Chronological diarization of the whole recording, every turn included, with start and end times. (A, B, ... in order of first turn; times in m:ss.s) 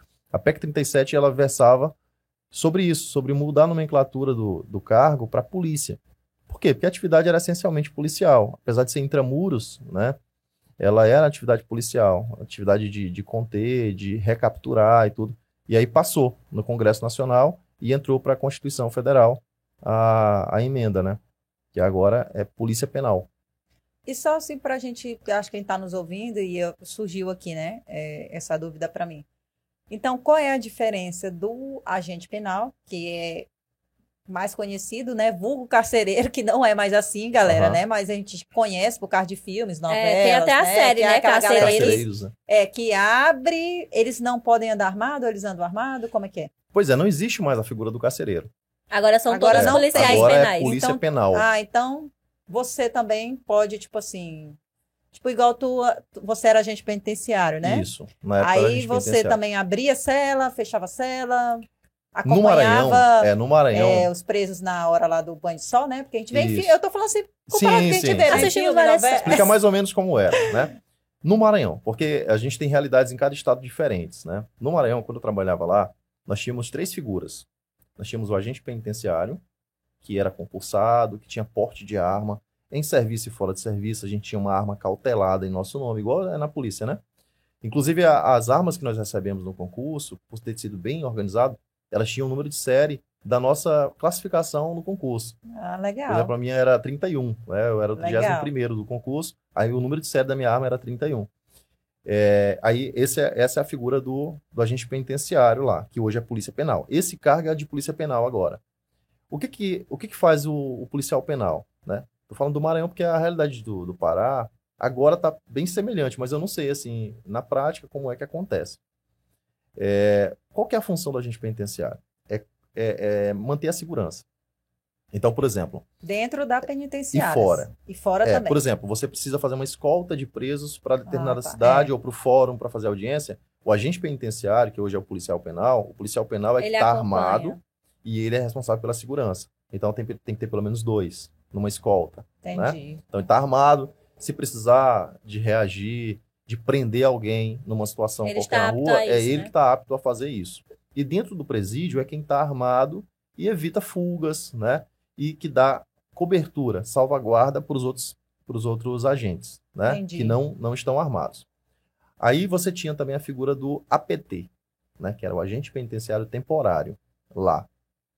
0:00.3-0:02.0 A
0:02.5-0:10.2 A
0:10.8-0:21.2 A
0:21.7-0:23.3 A
0:24.1-0:29.2 B
0:29.9-0:33.5 B
0:34.3-0:46.5 B
0:37.5-0:37.8 A
0:39.9-0:42.0 C
0:41.6-0:42.3 A
0:46.7-0:48.5 A
0:48.9-0:50.8 C
0:49.3-0:54.6 B
0:49.5-0:51.5 A
0:55.1-0:57.9 B
0:57.6-0:59.4 A
0:58.4-1:09.5 B
1:02.2-1:04.1 A
1:06.3-1:06.8 A
1:07.5-1:08.5 A
1:08.3-1:09.4 C
1:09.2-1:19.4 A
1:20.0-1:27.0 A
1:27.6-1:35.4 A
1:35.5-1:36.3 B
1:36.1-1:41.3 A
1:38.0-1:38.5 B
1:42.1-1:48.6 A
1:49.3-1:58.8 A
1:59.8-2:04.2 A
2:05.1-2:05.8 A
2:06.0-2:08.6 B
2:07.1-2:07.7 A
2:08.2-2:41.4 A
2:11.1-2:11.9 B
2:16.6-2:17.6 C
2:22.4-2:23.0 B
2:28.2-2:29.5 C
2:39.9-2:40.4 B
2:42.2-2:47.7 A